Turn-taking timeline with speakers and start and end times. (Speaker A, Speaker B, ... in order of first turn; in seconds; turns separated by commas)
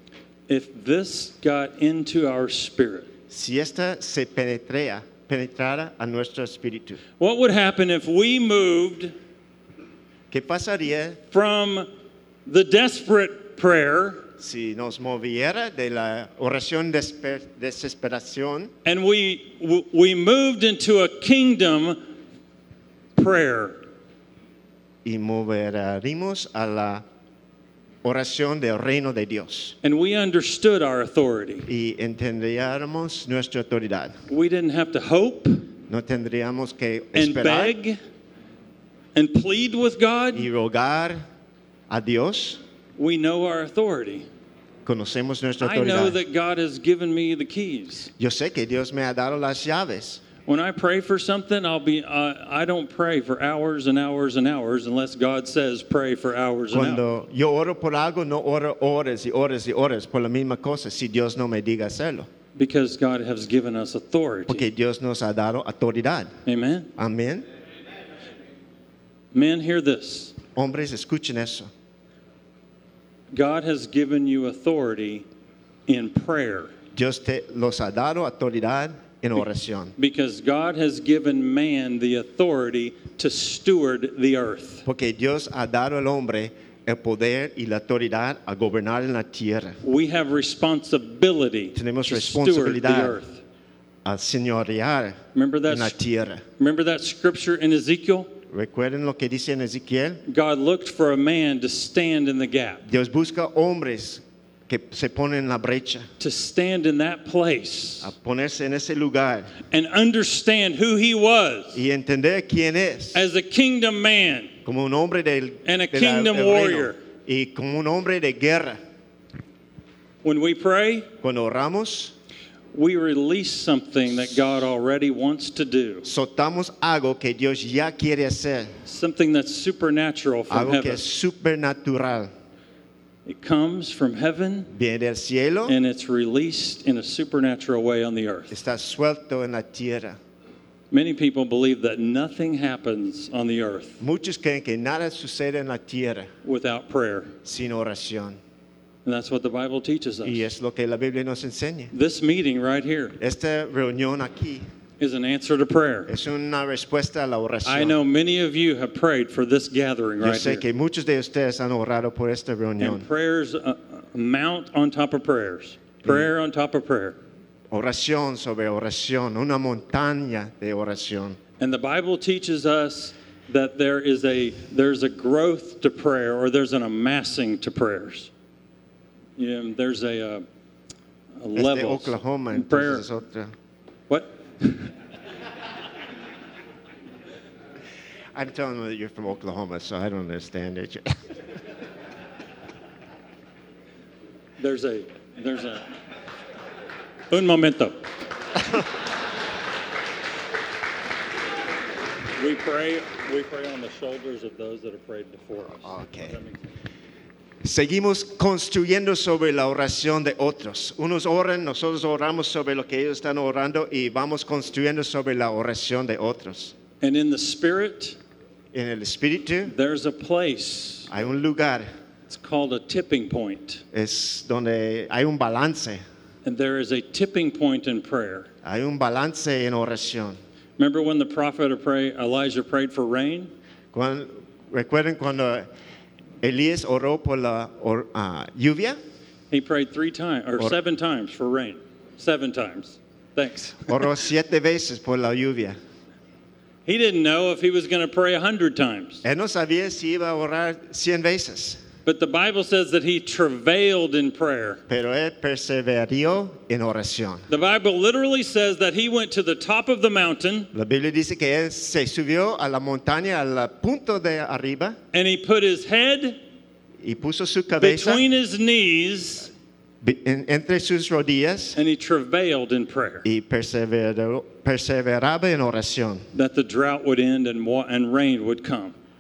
Speaker A: 0.5-3.1, Speaker B: 3.3-7.0, Speaker A: 7.2-9.2, Speaker B: 10.3-11.2, Speaker A: 11.3-11.9, Speaker A: 12.5-14.2, Speaker B: 14.4-18.7, Speaker A: 18.9-22.0, Speaker A: 23.2-23.8, Speaker B: 25.1-27.1, Speaker B: 28.0-29.8, Speaker A: 29.8-31.7, Speaker B: 31.7-34.1, Speaker A: 34.3-35.7, Speaker B: 35.9-37.7, Speaker A: 37.2-38.0, Speaker A: 39.1-40.5, Speaker B: 40.4-41.2, Speaker B: 41.9-42.6, Speaker A: 43.0-44.3, Speaker B: 44.9-46.2, Speaker A: 45.6-48.1, Speaker B: 48.2-50.2, Speaker A: 50.5-57.0, Speaker B: 56.7-62.3, Speaker A: 62.6-64.7, Speaker B: 64.5-66.3, Speaker A: 66.5-66.9, Speaker B: 67.0-67.5, Speaker A: 69.3-70.3, Speaker B: 70.6-71.7, Speaker A: 73.3-75.2, Speaker A: 75.9-76.7, Speaker B: 77.0-79.9, Speaker A: 80.0-84.8, Speaker B: 84.9-89.8, Speaker A: 89.8-93.4, Speaker B: 91.7-93.2, Speaker B: 94.0-96.4, Speaker A: 95.3-96.0, Speaker A: 96.6-98.3, Speaker B: 98.5-100.2, Speaker A: 100.2-102.8, Speaker B: 102.8-106.1, Speaker A: 106.2-108.1, Speaker B: 108.0-109.5, Speaker A: 109.7-111.8, Speaker B: 111.7-113.2, Speaker A: 113.1-114.5, Speaker B: 114.7-118.8, Speaker A: 115.7-117.0, Speaker A: 120.2-121.1, Speaker B: 121.2-122.1, Speaker A: 122.7-126.1, Speaker B: 126.0-128.8, Speaker A: 128.9-131.0, Speaker B: 130.5-132.3, Speaker A: 133.3-134.7, Speaker B: 134.7-135.8, Speaker A: 135.7-138.6, Speaker B: 138.5-140.2, Speaker A: 140.9-144.0, Speaker B: 144.0-146.3, Speaker A: 146.4-147.3, Speaker B: 147.4-148.4, Speaker A: 149.1-150.5, Speaker B: 150.2-151.9, Speaker A: 151.9-153.2, Speaker B: 153.2-154.7, Speaker A: 155.0-156.1, Speaker B: 156.1-158.0, Speaker A: 157.7-160.6, Speaker B: 160.2-163.1, Speaker A: 162.8-167.2, Speaker B: 167.7-171.4, Speaker A: 171.6-178.3, Speaker A: 179.4-180.4, Speaker A: 181.4-183.1, Speaker B: 181.6-183.5, Speaker A: 184.1-184.9, Speaker B: 188.3-191.2, Speaker A: 194.6-195.8, Speaker A: 197.3-198.0, Speaker A: 202.4-206.6, Speaker B: 205.8-206.4, Speaker B: 207.6-216.8, Speaker A: 217.0-218.2, Speaker B: 218.7-219.7, Speaker A: 219.7-221.1, Speaker B: 221.1-221.9, Speaker A: 222.3-223.8, Speaker B: 223.9-226.0, Speaker A: 226.4-228.5, Speaker B: 228.6-230.4, Speaker A: 230.8-233.5, Speaker B: 233.9-235.7, Speaker B: 236.4-239.0, Speaker A: 239.5-244.1, Speaker B: 243.9-245.8, Speaker A: 246.9-249.2, Speaker B: 249.2-251.8, Speaker A: 252.1-254.8, Speaker B: 254.9-257.5, Speaker A: 257.5-260.7, Speaker B: 260.7-265.0, Speaker A: 265.1-266.4, Speaker B: 267.0-268.2, Speaker A: 267.8-269.5, Speaker B: 270.0-271.8, Speaker A: 271.8-273.3, Speaker B: 273.2-276.3, Speaker A: 276.3-278.9